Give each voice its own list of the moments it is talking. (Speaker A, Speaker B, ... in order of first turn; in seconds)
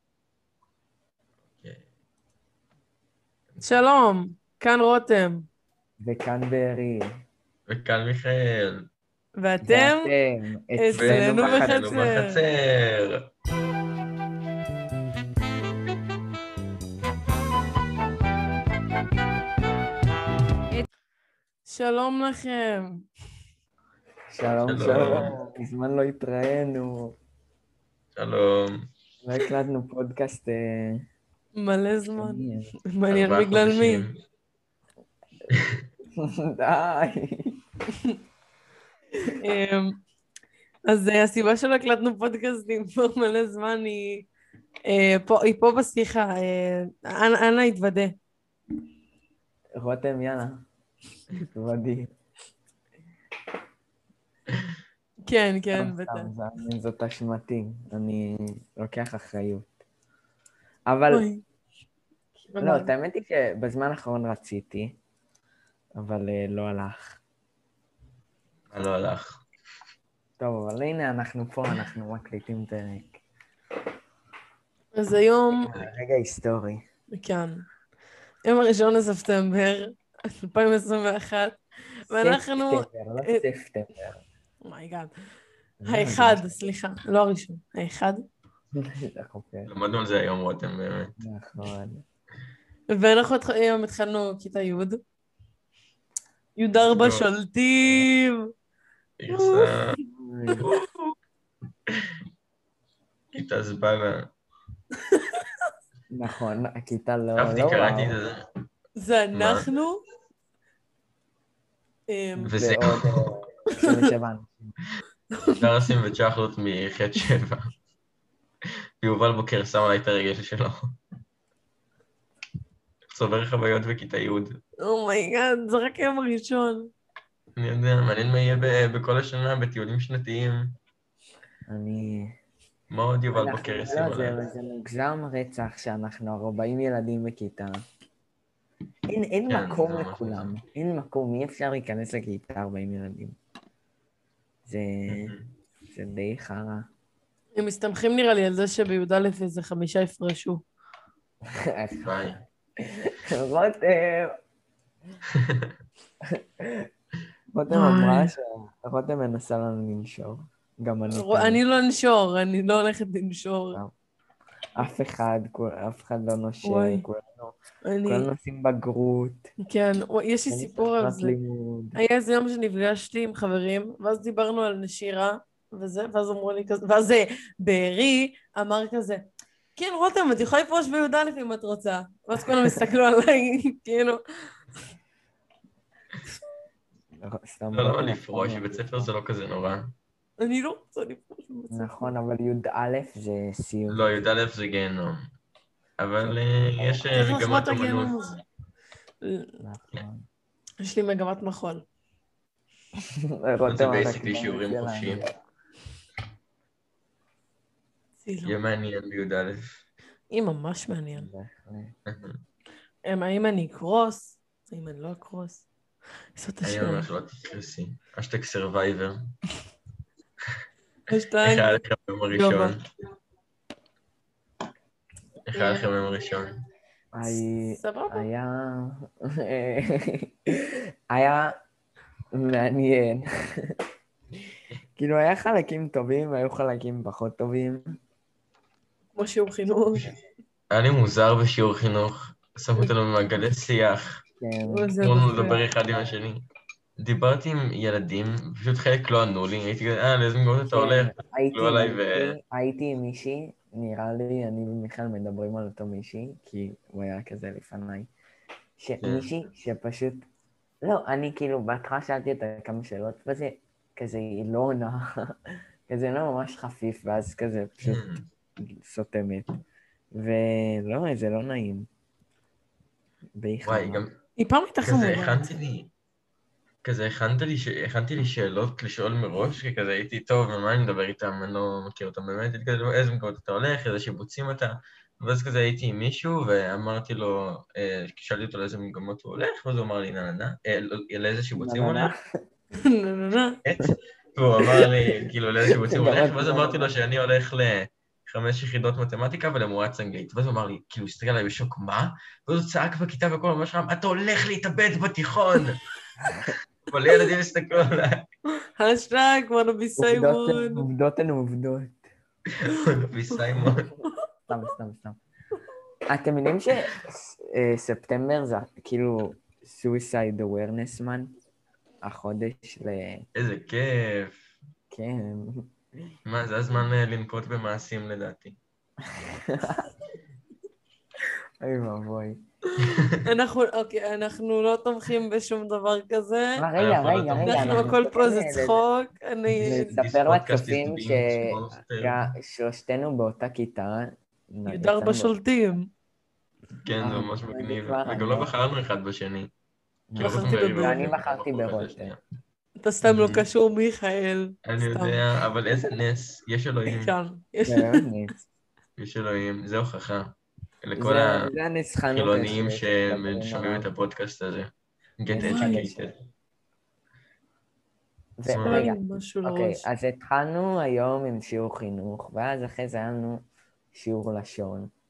Speaker A: 3.6-5.5, 9.4-10.1, 10.8-12.4, 21.7-23.0, 31.6-34.1, 39.4-40.0, 40.9-44.3, 44.9-48.2, 55.3-56.3, 61.1-61.4, 62.5-62.9, 74.9-75.7, 77.2-77.7, 78.5-83.4, 84.7-85.1, 85.9-88.2, 92.9-95.0, 96.6-98.5, 99.3-99.7, 105.1-105.4, 109.0-110.0, 112.1-112.6, 113.7-114.1, 115.4-115.6, 124.8-126.9, 147.6-150.6, 157.7-158.3, 161.1-163.8, 166.6-167.1, 167.8-168.3, 169.7-171.4, 171.9-179.2, 179.8-184.2, 190.4-192.1, 197.1-198.4, 199.2-199.5, 200.8-201.8, 208.2-208.6, 210.3-211.3, 213.1-215.7, 216.4-217.1, 221.1-221.8, 222.3-222.8, 225.5-225.9, 227.2-228.3, 239.2-240.1, 244.7-245.7, 274.4-275.6, 292.8-293.6, 308.8-310.9, 333.2-336.7, 337.4-340.0, 344.7-345.9, 350.2-351.1, 352.8-355.2, 356.9-358.0, 365.4-365.8, 368.6-369.8
Speaker B: 6.0-7.2, 9.6-11.8, 24.3-27.2, 29.2-31.1, 32.1-32.7, 36.2-37.6, 49.8-50.6, 51.3-52.1, 55.7-59.7, 60.9-61.3, 62.6-65.0, 66.0-67.1, 70.4-73.2, 75.5-76.8, 82.1-84.2, 85.8-86.6, 88.7-89.7, 91.2-92.0, 100.1-100.7, 106.1-108.2, 112.6-114.8, 131.7-132.4, 133.3-137.8, 139.1-143.4, 144.7-145.4, 145.9-146.9, 151.4-154.4, 156.2-156.9, 157.5-161.6, 164.8-169.5, 170.5-172.0, 187.2-189.1, 191.7-194.2, 199.6-200.3, 203.0-205.3, 211.2-211.9, 227.1-231.6, 232.3-233.8, 235.0-238.0, 244.4-245.0, 250.7-258.1, 258.8-260.3, 260.8-268.0, 268.6-269.5, 270.1-271.9, 273.4-274.0, 291.6-292.2, 295.7-297.0, 306.3-306.5, 310.0-312.1, 314.5-315.2, 316.1-321.3, 322.0-323.3, 324.9-326.1, 329.0-329.9, 331.2-332.4, 336.6-338.8, 339.6-345.3, 347.0-348.5, 350.1-352.2, 357.7-358.4, 361.0-363.9, 365.3-366.1, 368.4-374.9
Speaker C: 7.7-8.9, 10.9-13.3, 24.7-25.4, 28.2-28.9, 33.1-34.2, 35.5-35.9, 68.7-69.4, 89.7-91.1, 96.9-97.3, 99.2-100.0, 100.6-101.1, 103.3-104.3, 107.4-108.4, 109.3-109.7, 112.4-113.5, 115.5-117.7, 119.0-121.0, 123.1-124.6, 127.6-130.8, 132.9-134.4, 139.5-140.6, 145.1-145.5, 152.0-152.4, 155.3-155.7, 187.7-189.9, 193.9-195.3, 196.0-198.2, 203.7-205.2, 208.4-209.8, 212.1-212.4, 216.6-219.4, 221.4-222.9, 225.4-226.6, 240.7-244.2, 245.0-246.4, 247.0-252.3, 259.0-259.3, 267.8-268.3, 273.6-274.2, 274.9-275.9, 276.8-292.1, 293.6-305.8, 306.9-308.3, 312.5-313.9, 323.4-324.5, 326.3-328.6, 332.8-333.3, 336.8-337.9, 339.6-342.2, 346.8-349.5, 350.2-352.2, 353.1-353.5, 354.6-357.1, 359.0-361.5, 362.1-366.2, 368.5-368.9